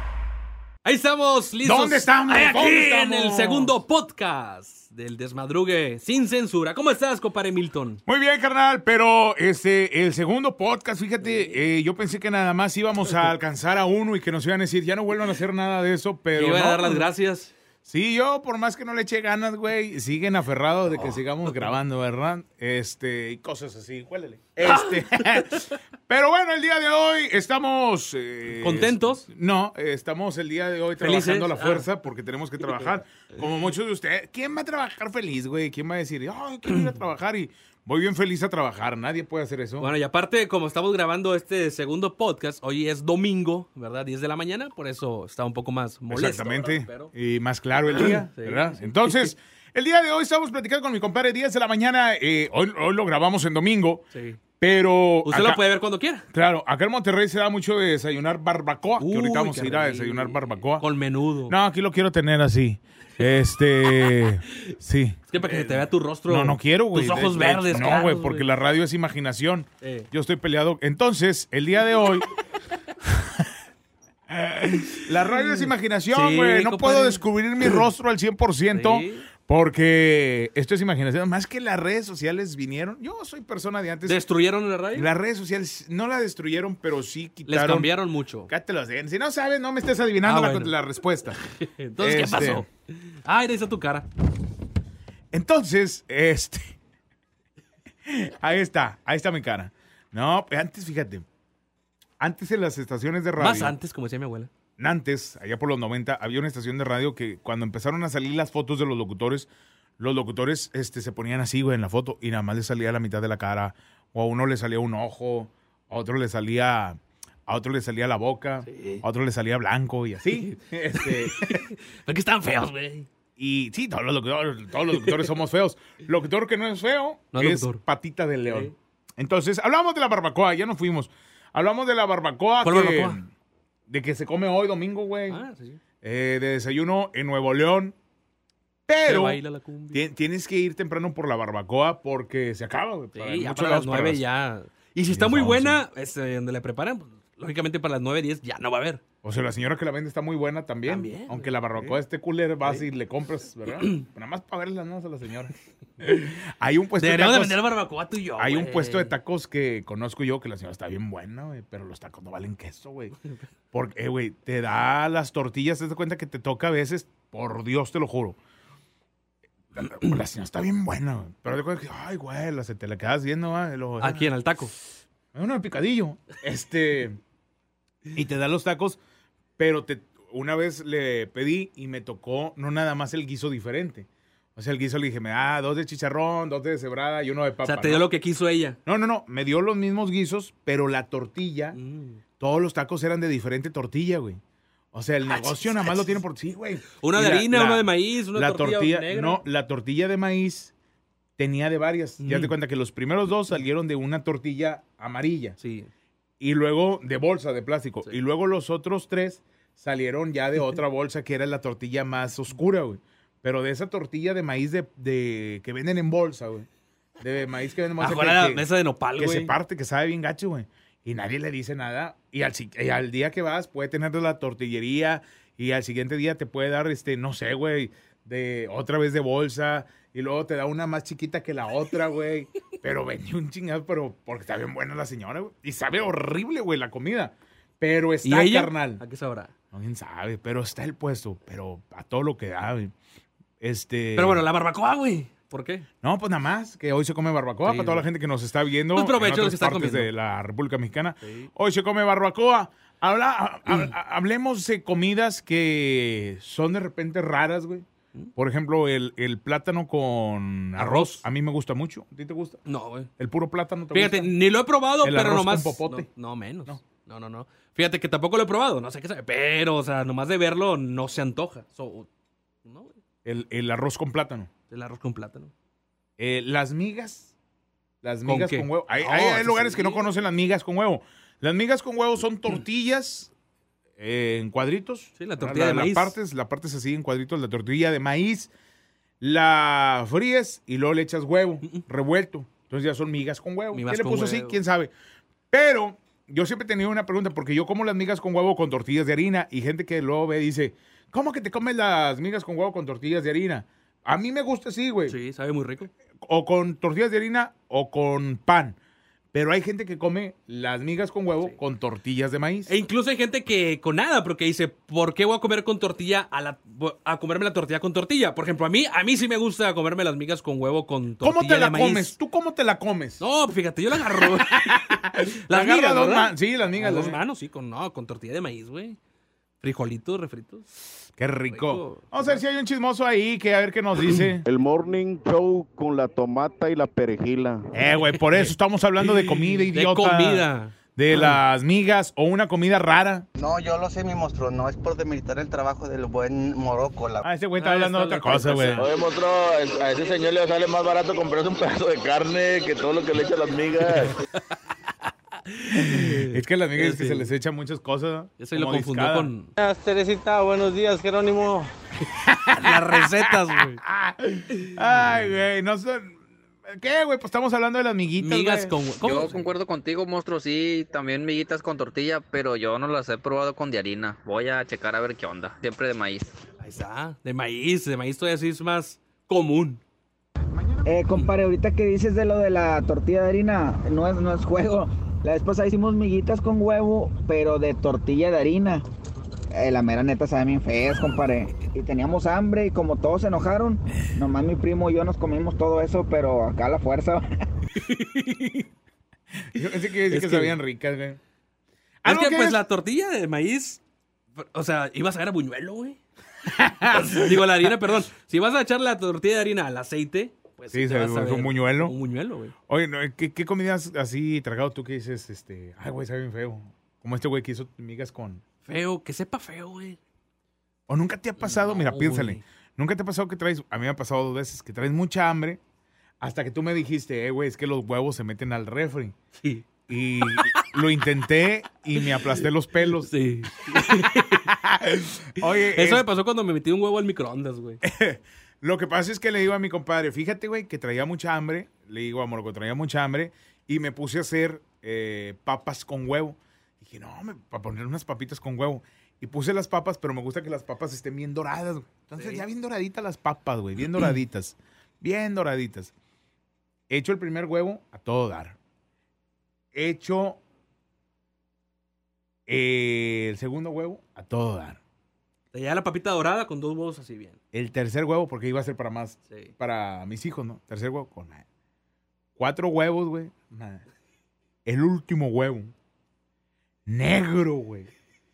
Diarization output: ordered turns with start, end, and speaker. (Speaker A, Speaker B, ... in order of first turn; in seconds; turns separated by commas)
Speaker A: 0.8-8.0, Speaker B: 1.6-3.8, Speaker B: 8.1-17.1, Speaker A: 11.2-11.6, Speaker A: 16.3-17.5, Speaker B: 17.8-39.9, Speaker A: 21.4-21.7, Speaker A: 24.6-25.8, Speaker A: 28.5-29.3, Speaker A: 31.0-31.9, Speaker A: 32.6-32.9, Speaker A: 39.8-47.1, Speaker B: 46.1-54.0, Speaker A: 47.9-49.3, Speaker A: 54.1-54.4, Speaker B: 54.6-55.6, Speaker A: 55.2-56.2, Speaker B: 56.3-60.9, Speaker A: 59.0-61.5, Speaker B: 61.5-72.3, Speaker A: 64.0-64.6, Speaker A: 65.3-68.5, Speaker A: 69.8-70.1, Speaker B: 73.1-73.4, Speaker B: 74.3-84.2, Speaker A: 75.2-77.8, Speaker A: 78.7-79.3, Speaker A: 84.0-85.1, Speaker B: 84.9-87.9, Speaker A: 87.5-88.5, Speaker B: 88.5-91.4, Speaker A: 90.2-90.7, Speaker A: 91.6-94.1, Speaker B: 92.0-92.6, Speaker B: 95.3-96.8, Speaker B: 98.1-101.2, Speaker B: 102.2-103.8, Speaker A: 103.4-104.5, Speaker B: 104.8-109.5, Speaker B: 110.0-121.7, Speaker A: 118.6-119.0, Speaker A: 120.3-123.1, Speaker B: 123.4-133.3, Speaker A: 127.3-127.8, Speaker A: 128.5-128.7, Speaker A: 132.6-133.2, Speaker B: 133.9-135.4, Speaker A: 135.3-135.8, Speaker B: 136.0-137.9, Speaker B: 138.9-139.4, Speaker A: 139.0-140.0, Speaker B: 139.9-144.2, Speaker A: 143.1-149.0, Speaker B: 145.1-145.8, Speaker B: 149.2-157.7, Speaker A: 150.8-152.0, Speaker A: 157.0-159.1, Speaker B: 158.4-163.2, Speaker B: 163.7-168.4, Speaker B: 169.8-174.3, Speaker A: 174.0-174.7, Speaker B: 175.3-177.2, Speaker B: 178.1-179.0, Speaker B: 179.6-188.1, Speaker A: 187.6-188.8, Speaker B: 188.8-191.8, Speaker A: 191.7-192.2, Speaker B: 192.4-194.4, Speaker B: 194.9-200.7, Speaker A: 195.2-196.2, Speaker A: 196.8-199.4, Speaker B: 201.4-205.6, Speaker A: 202.2-202.6, Speaker A: 205.6-205.9, Speaker B: 206.4-216.7, Speaker B: 217.2-239.0, Speaker A: 218.0-219.5, Speaker A: 238.2-239.5, Speaker B: 239.7-242.9, Speaker B: 243.6-244.4, Speaker A: 244.1-245.9, Speaker B: 246.0-262.6, Speaker A: 247.6-248.1, Speaker A: 248.9-250.1, Speaker A: 251.2-251.5, Speaker A: 260.8-261.2, Speaker A: 262.6-263.1, Speaker B: 263.2-264.3, Speaker A: 263.9-272.1, Speaker B: 265.0-266.1, Speaker A: 272.6-273.0, Speaker B: 273.2-274.5, Speaker A: 274.7-275.5, Speaker B: 276.2-277.3, Speaker B: 278.0-283.3, Speaker A: 278.2-280.2, Speaker B: 284.0-288.5, Speaker A: 285.1-286.2, Speaker B: 289.2-294.9, Speaker A: 293.7-294.6, Speaker B: 295.5-305.2, Speaker A: 305.1-305.9, Speaker B: 306.2-308.8, Speaker B: 309.3-312.7, Speaker A: 312.7-322.2, Speaker B: 321.2-323.2, Speaker A: 323.2-324.9, Speaker B: 324.2-327.2, Speaker A: 325.4-329.0, Speaker A: 329.6-330.7, Speaker B: 331.2-334.4, Speaker A: 331.5-332.4, Speaker C: 334.4-337.7, Speaker B: 337.7-343.2, Speaker A: 338.0-341.3, Speaker D: 343.4-347.2, Speaker B: 347.2-348.9, Speaker A: 347.6-348.9, Speaker E: 348.7-354.1, Speaker A: 355.4-357.3, Speaker B: 355.8-359.3, Speaker A: 358.4-359.5, Speaker D: 359.6-361.6, Speaker B: 362.3-362.8, Speaker A: 362.5-363.8, Speaker B: 363.9-368.7, Speaker A: 364.5-365.4, Speaker A: 368.2-369.5, Speaker F: 369.0-376.4, Speaker A: 376.6-379.8, Speaker G: 380.8-388.9, Speaker G: 389.5-397.2, Speaker A: 397.7-398.7, Speaker B: 399.5-401.2, Speaker A: 400.0-400.6, Speaker B: 402.0-402.6, Speaker A: 402.1-403.8, Speaker A: 404.4-406.0, Speaker B: 406.5-407.7, Speaker A: 406.6-412.5, Speaker B: 410.7-411.9, Speaker B: 412.7-418.4, Speaker A: 418.6-420.0, Speaker B: 420.9-425.6, Speaker A: 421.4-422.4, Speaker B: 426.2-429.1, Speaker A: 429.4-429.6, Speaker B: 429.9-433.1, Speaker A: 430.2-430.6, Speaker A: 431.9-432.4, Speaker A: 433.0-434.6, Speaker B: 433.7-436.1, Speaker A: 435.4-437.8, Speaker B: 437.8-455.9, Speaker A: 452.1-452.4, Speaker B: 456.9-458.6, Speaker B: 459.7-460.4, Speaker B: 462.5-464.8, Speaker A: 465.5-467.4, Speaker B: 467.5-471.4, Speaker B: 472.4-473.8, Speaker B: 474.6-475.7, Speaker B: 476.9-477.9